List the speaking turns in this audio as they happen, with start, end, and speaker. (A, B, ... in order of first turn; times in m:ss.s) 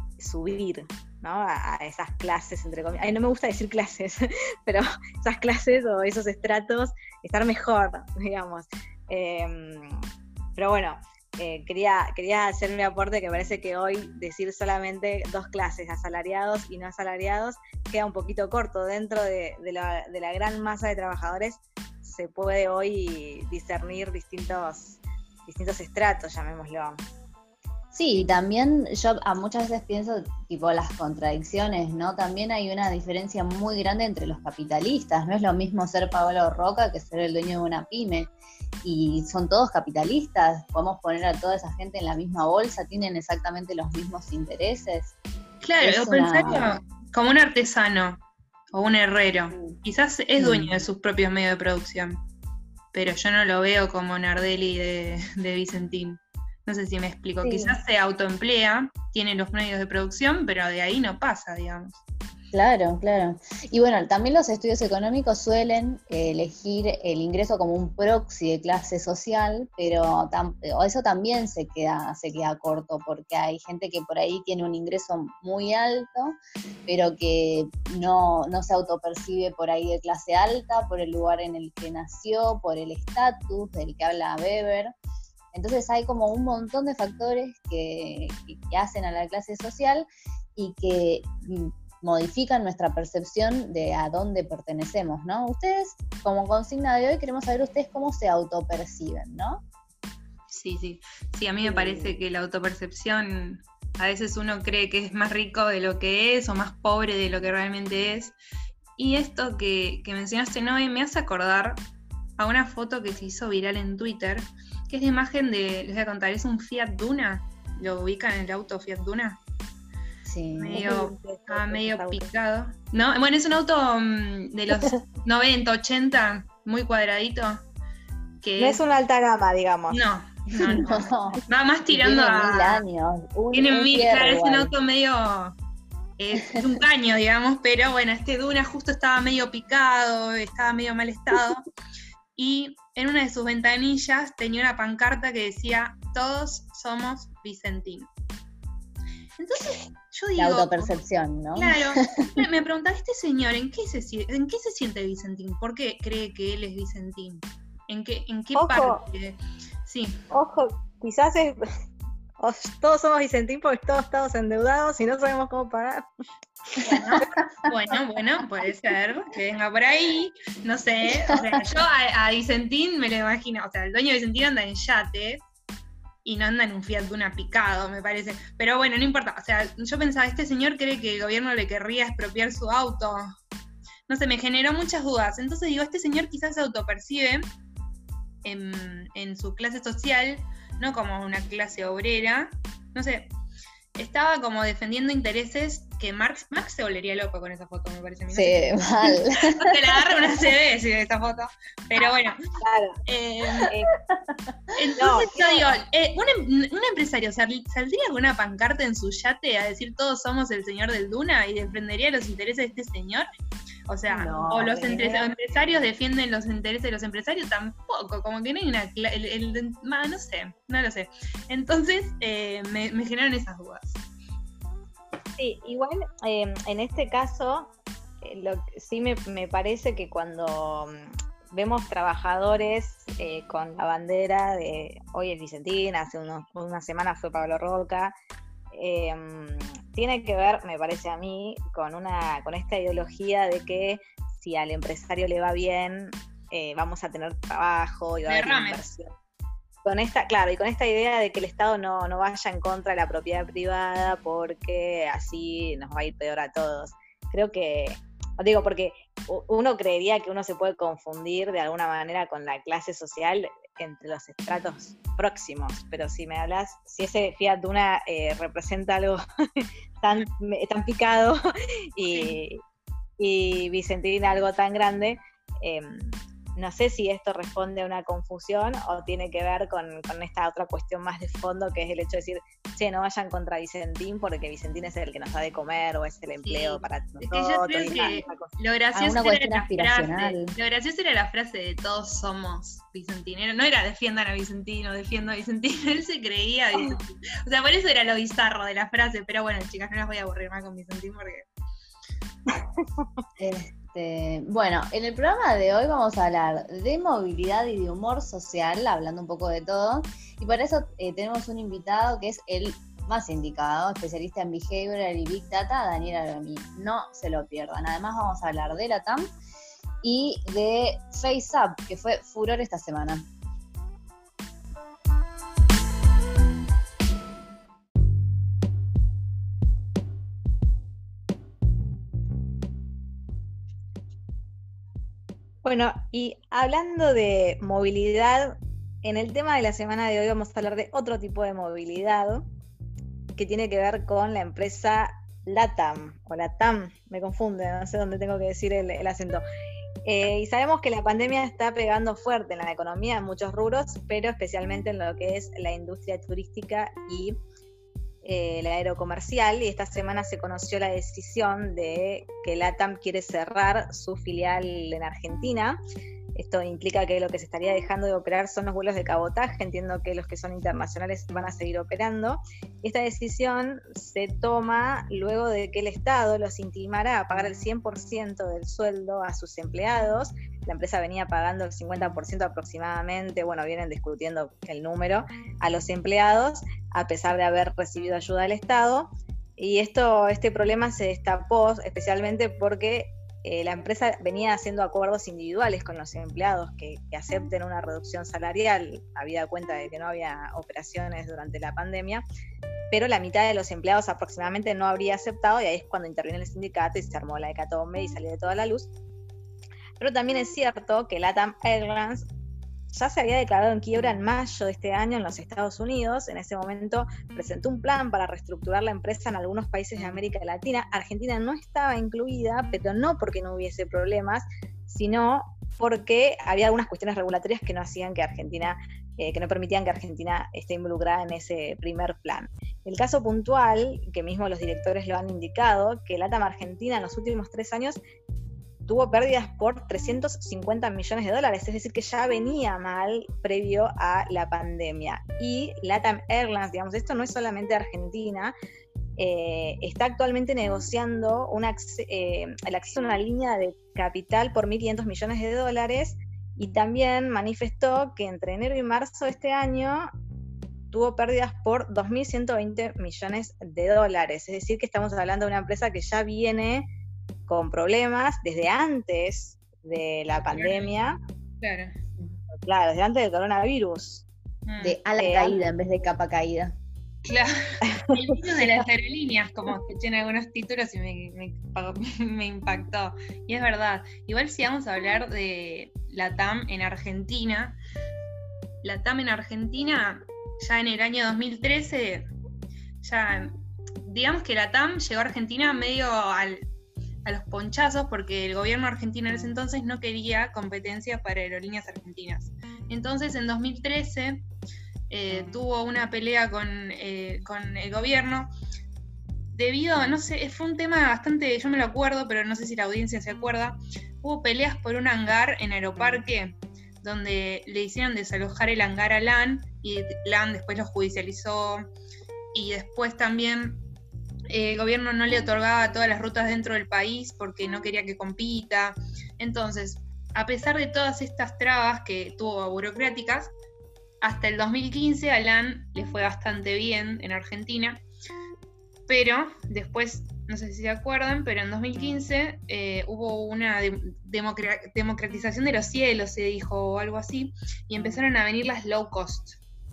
0:00.2-0:27.0 A
0:27.9-0:38.3 B
0:38.8-0:45.1 B
0:45.6-0:52.2 C
0:45.8-0:46.8 B
0:49.5-0:49.8 B
0:50.4-0:50.8 B
0:52.9-1:02.0 C
0:57.4-0:57.8 B
1:02.5-1:24.9 B
1:25.5-1:39.6 B
1:40.5-1:48.4 C
1:41.6-1:42.2 B
1:49.0-1:51.8 C
1:52.4-1:59.4 C
2:00.2-2:00.9 B
2:00.6-2:07.6 C
2:00.7-2:02.3 A
2:08.4-2:08.8 C
2:08.6-2:10.0 A
2:09.9-2:12.8 C
2:10.5-2:14.7 B
2:13.5-2:15.6 C
2:16.2-2:21.6 C
2:16.4-2:16.7 B
2:22.4-2:28.1 C
2:29.4-2:30.9 C
2:30.4-2:32.5 B
2:31.6-2:40.2 C
2:38.5-2:39.0 A
2:40.3-2:41.6 A
2:42.4-2:46.1 A
2:46.8-2:55.4 C
2:56.2-3:03.3 C
3:04.1-3:07.5 C
3:08.4-3:13.3 C
3:14.0-3:22.4 C
3:18.3-3:20.4 B
3:22.6-3:23.0 A
3:23.1-3:23.7 C
3:24.8-3:33.3 C
3:25.0-3:25.6 A
3:33.9-3:44.0 C
3:34.1-3:35.2 B
3:45.4-3:58.1 A
3:58.7-4:09.1 A
4:08.3-4:08.9 C
4:09.8-4:32.6 A
4:32.1-4:32.4 C
4:33.2-4:48.5 A
4:46.5-5:01.5 C
4:49.0-4:50.5 B
5:03.4-5:19.3 B
5:20.0-5:23.3 B
5:35.6-5:42.5 A
5:43.4-5:49.4 A
5:50.0-5:57.4 A
5:58.2-6:05.8 A
6:06.4-6:42.2 A
6:42.9-6:49.0 A
6:50.0-6:52.3 A
6:52.9-7:18.0 A
7:18.9-7:28.5 A
7:29.2-7:40.1 A
7:40.9-7:46.9 A
7:47.5-7:51.2 A
7:50.6-7:51.0 C
7:51.6-7:52.0 C
7:52.5-7:54.3 A
7:54.7-7:55.0 C
7:54.8-7:56.8 B
7:55.2-7:55.6 A
7:57.3-8:07.8 C
7:57.9-7:58.2 A
8:08.8-8:12.3 C
8:13.0-8:16.7 C
8:17.2-8:24.5 C
8:25.1-8:28.5 C
8:29.5-8:41.9 C
8:42.5-8:43.8 C
8:44.5-8:53.5 C
8:54.2-8:58.0 C
8:59.1-9:09.6 C